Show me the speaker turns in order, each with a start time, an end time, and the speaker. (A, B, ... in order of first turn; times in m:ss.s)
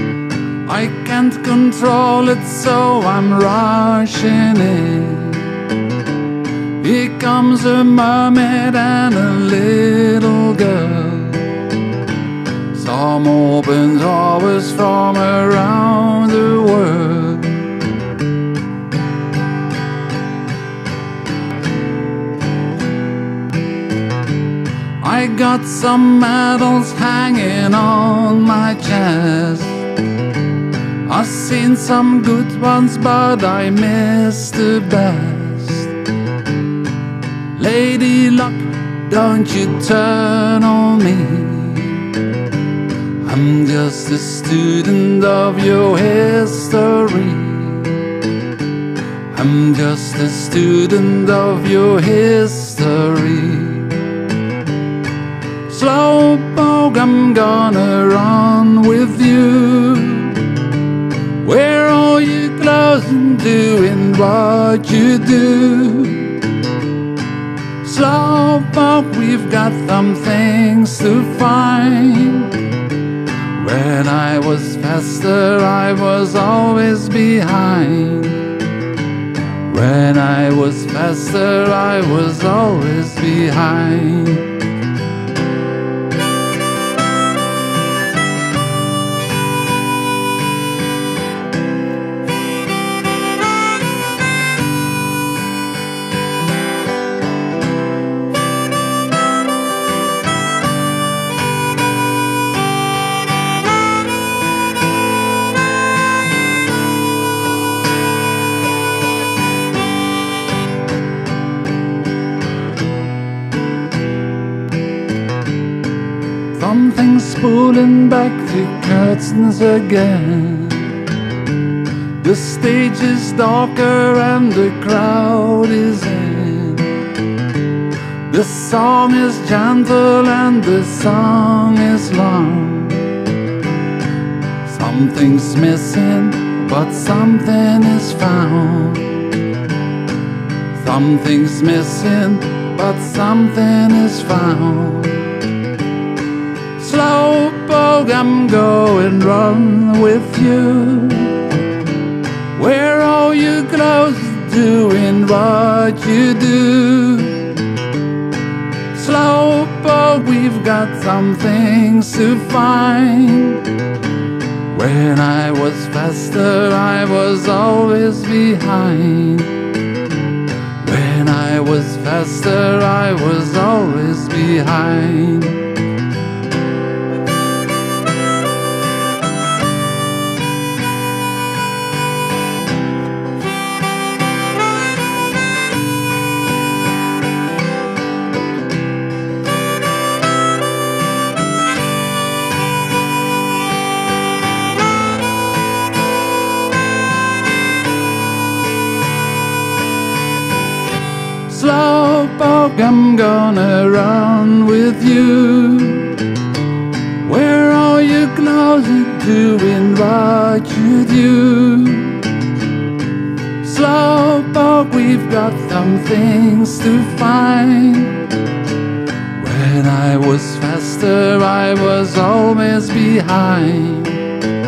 0:00.6-0:05.8 A
0:06.8-0:11.7 A
0:12.7-0:17.8 A
0:25.0-0:29.9 A
0:31.0-0:36.0 A
0:37.6-0:42.2 A
0:43.2-0:48.2 A
0:49.3-0:54.1 A
0:55.7-1:00.7 A
1:01.4-1:06.6 A
1:07.8-1:12.6 A
1:13.5-1:18.6 A
1:19.6-1:24.6 A
1:56.5-2:01.1 A
2:02.2-2:07.2 A
2:08.3-2:13.2 A
2:14.6-2:19.4 A
2:20.8-2:25.4 A
2:26.8-2:31.6 A
2:32.5-2:37.6 A
2:38.9-2:43.7 A
2:44.7-2:49.7 A
2:50.8-2:55.7 A
3:21.5-3:26.3 A
3:27.2-3:32.4 A
3:33.6-3:38.4 A
3:39.3-3:44.4 A